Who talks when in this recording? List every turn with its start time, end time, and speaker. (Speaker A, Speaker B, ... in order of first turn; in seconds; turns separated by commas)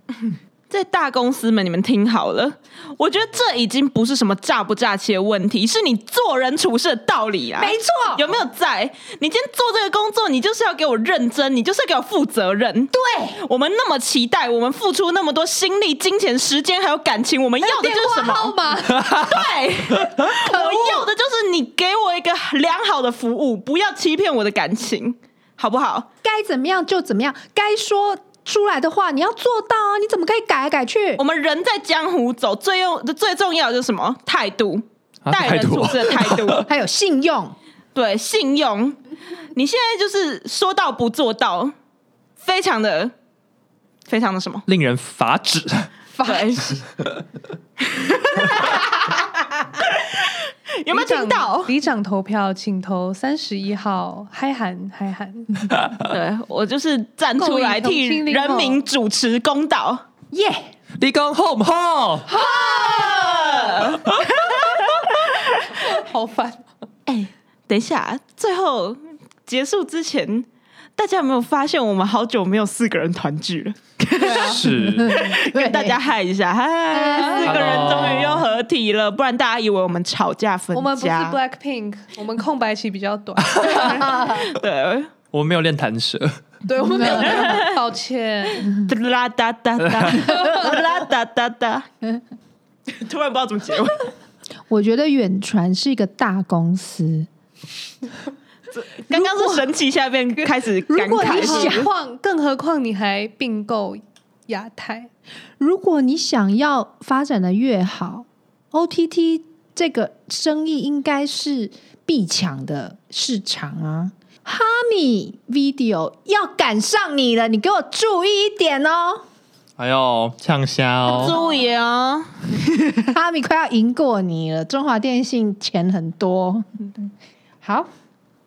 Speaker A: 0.7-26.1, Speaker B: 7.6-8.3, Speaker B: 12.9-13.4, Speaker C: 17.6-19.1, Speaker D: 18.9-19.5, Speaker C: 20.5-21.1, Speaker B: 26.2-31.2, Speaker A: 31.2-36.7, Speaker D: 35.2-36.7, Speaker B: 36.6-37.6, Speaker A: 38.0-39.0, Speaker A: 39.5-41.7, Speaker A: 42.4-43.1, Speaker A: 44.1-44.6, Speaker D: 44.7-45.9, Speaker C: 46.1-46.8, Speaker A: 46.2-46.8, Speaker A: 47.8-49.1, Speaker A: 49.7-51.7, Speaker C: 50.9-55.7, Speaker D: 55.7-56.1, Speaker A: 56.1-60.0, Speaker C: 57.4-58.8, Speaker B: 60.3-60.7, Speaker D: 61.0-62.3, Speaker C: 62.3-63.6, Speaker A: 62.3-65.8, Speaker C: 65.8-66.7, Speaker A: 67.1-81.4, Speaker C: 74.2-74.5, Speaker D: 74.4-75.1, Speaker B: 74.7-76.0, Speaker B: 76.9-77.8, Speaker C: 77.1-77.6, Speaker D: 77.4-78.5, Speaker C: 80.7-84.0, Speaker D: 83.6-84.0, Speaker A: 83.6-85.1, Speaker B: 83.9-84.5, Speaker D: 85.3-86.4, Speaker C: 86.7-88.7, Speaker B: 86.8-87.6, Speaker A: 87.1-87.8, Speaker A: 88.8-91.9, Speaker A: 92.9-94.1, Speaker B: 94.7-97.3, Speaker A: 98.7-101.9, Speaker B: 99.1-99.6, Speaker B: 100.9-101.9, Speaker C: 101.1-105.1, Speaker B: 105.6-119.2, Speaker D: 119.8-121.4, Speaker A: 121.1-123.1, Speaker B: 123.1-127.1, Speaker B: 127.6-127.9